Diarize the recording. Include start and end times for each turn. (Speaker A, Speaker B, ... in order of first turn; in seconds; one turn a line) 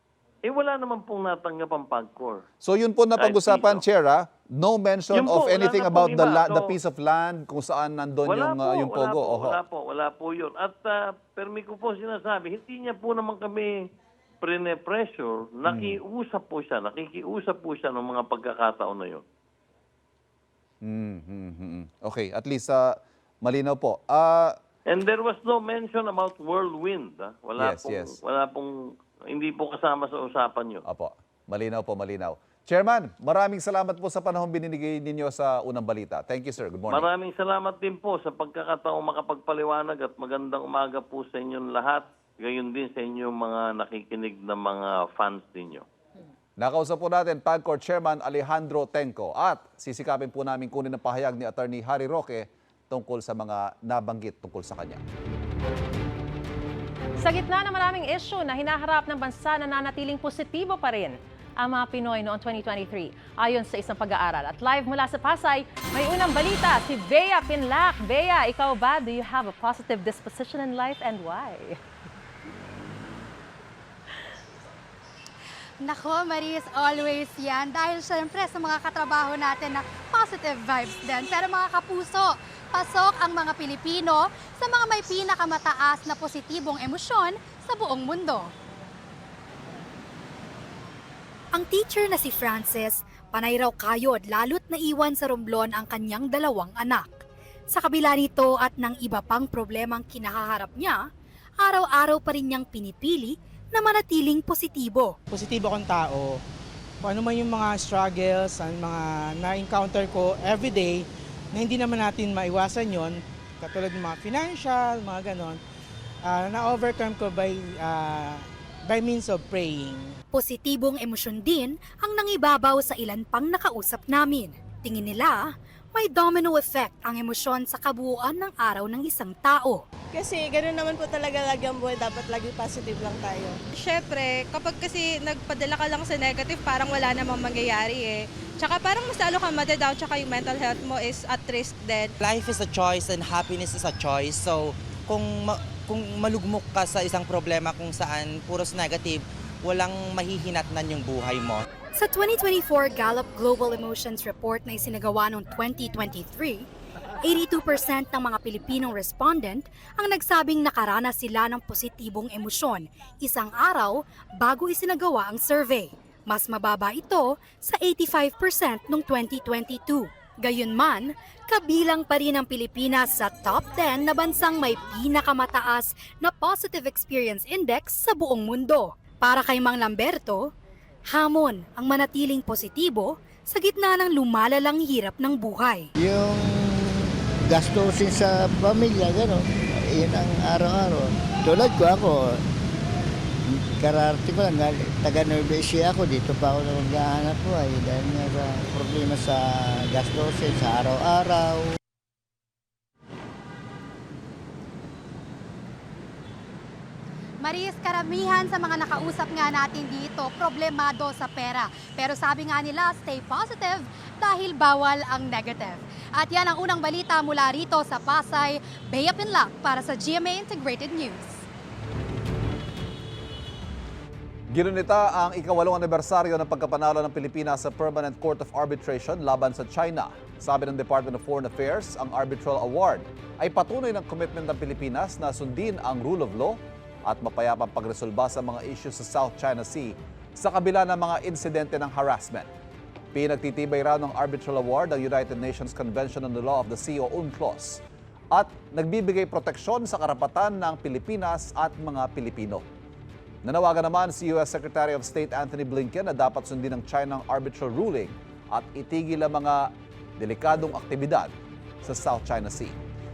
Speaker A: 0.5-2.4
Speaker B: 2.6-9.6
Speaker A: 3.2-3.8
Speaker A: 5.1-6.7
Speaker A: 8.2-13.7
Speaker A: 14.4-19.2
Speaker B: 15.7-16.0
Speaker B: 20.8-24.6
Speaker A: 24.9-28.7
Speaker B: 27.6-28.1
Speaker A: 29.3-30.8
Speaker B: 30.9-37.1
Speaker A: 36.9-45.9
Speaker B: 46.6-55.0
Speaker C: 57.2-71.8
Speaker D: 75.8-88.5
Speaker D: 91.5-101.0
Speaker D: 101.6-105.2
Speaker E: 105.3-106.4
Speaker E: 107.0-115.6
Speaker E: 116.3-120.1
Speaker D: 120.3-129.8
Speaker F: 130.1-133.6
Speaker G: 133.8-142.1
Speaker H: 142.2-151.6
Speaker D: 152.0-156.7
Speaker D: 157.2-180.5
Speaker D: 181.1-185.9
Speaker I: 186.0-192.4
Speaker I: 193.8-201.7
Speaker D: 207.4-221.4
Speaker B: 224.5-242.5
Speaker B: 243.1-247.8
Speaker B: 248.3-252.7
Speaker B: 253.4-261.3
Speaker B: 261.8-262.8